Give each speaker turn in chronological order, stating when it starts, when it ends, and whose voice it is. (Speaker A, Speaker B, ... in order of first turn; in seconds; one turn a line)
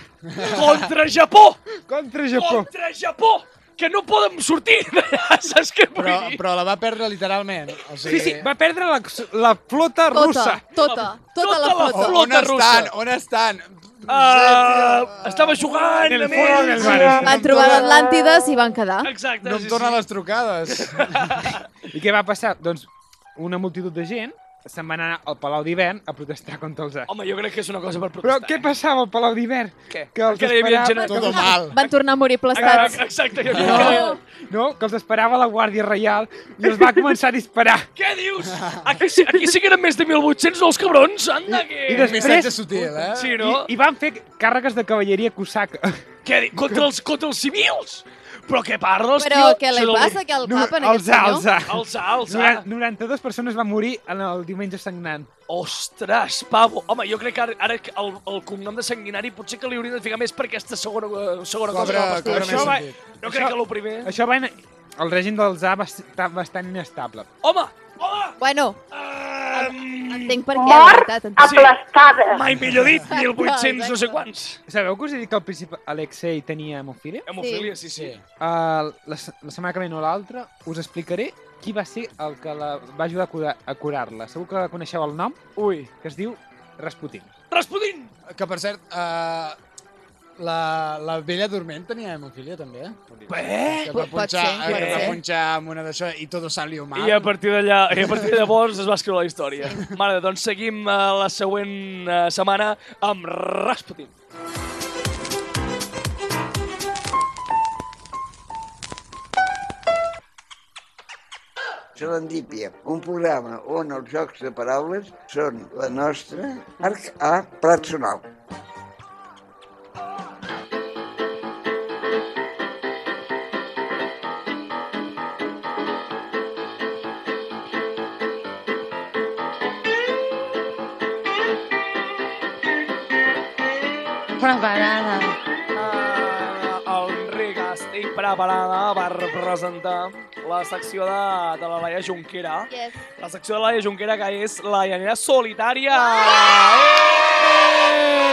Speaker A: 0.4-1.6
Speaker B: 1.9-2.7
Speaker A: 2.3-6.4
Speaker C: 6.0-8.5
Speaker B: 8.0-10.6
Speaker D: 10.1-12.2
Speaker A: 10.8-12.9
Speaker C: 11.9-15.6
Speaker A: 14.1-17.1
Speaker B: 16.1-17.5
Speaker C: 16.4-18.1
Speaker D: 16.8-19.1
Speaker A: 19.0-20.1
Speaker C: 19.4-21.5
Speaker A: 20.7-21.7
Speaker B: 21.9-27.1
Speaker A: 27.1-28.7
Speaker B: 28.2-31.6
Speaker A: 29.9-31.9
Speaker D: 31.0-34.2
Speaker C: 31.0-31.8
Speaker A: 32.5-34.2
Speaker B: 32.6-37.9
Speaker A: 38.0-42.5
Speaker C: 38.5-38.9
Speaker B: 41.5-46.0
Speaker C: 41.9-43.4
Speaker A: 43.1-43.7
Speaker A: 46.2-50.2
Speaker B: 46.6-46.9
Speaker D: 49.2-51.5
Speaker B: 50.4-55.3
Speaker A: 51.7-52.7
Speaker A: 55.5-64.1
Speaker C: 61.7-63.0
Speaker B: 62.2-67.3
Speaker A: 67.4-68.4
Speaker D: 68.4-68.8
Speaker A: 68.9-70.4
Speaker D: 69.5-71.7
Speaker E: 70.5-72.5
Speaker A: 71.4-74.6
Speaker D: 73.1-74.2
Speaker B: 74.7-77.3
Speaker A: 77.3-78.2
Speaker D: 77.4-77.7
Speaker C: 77.8-78.2
Speaker B: 78.4-85.4
Speaker A: 85.6-85.9
Speaker B: 86.0-87.3
Speaker A: 87.5-88.1
Speaker C: 88.3-89.6
Speaker C: 90.4-93.0
Speaker A: 93.3-94.0
Speaker C: 93.6-97.3
Speaker D: 93.9-95.2
Speaker A: 94.6-95.2
Speaker A: 97.0-104.1
Speaker F: 112.0-118.3
Speaker E: 134.4-135.3
Speaker A: 135.8-147.8
Speaker D: 142.7-143.0
Speaker D: 145.9-146.9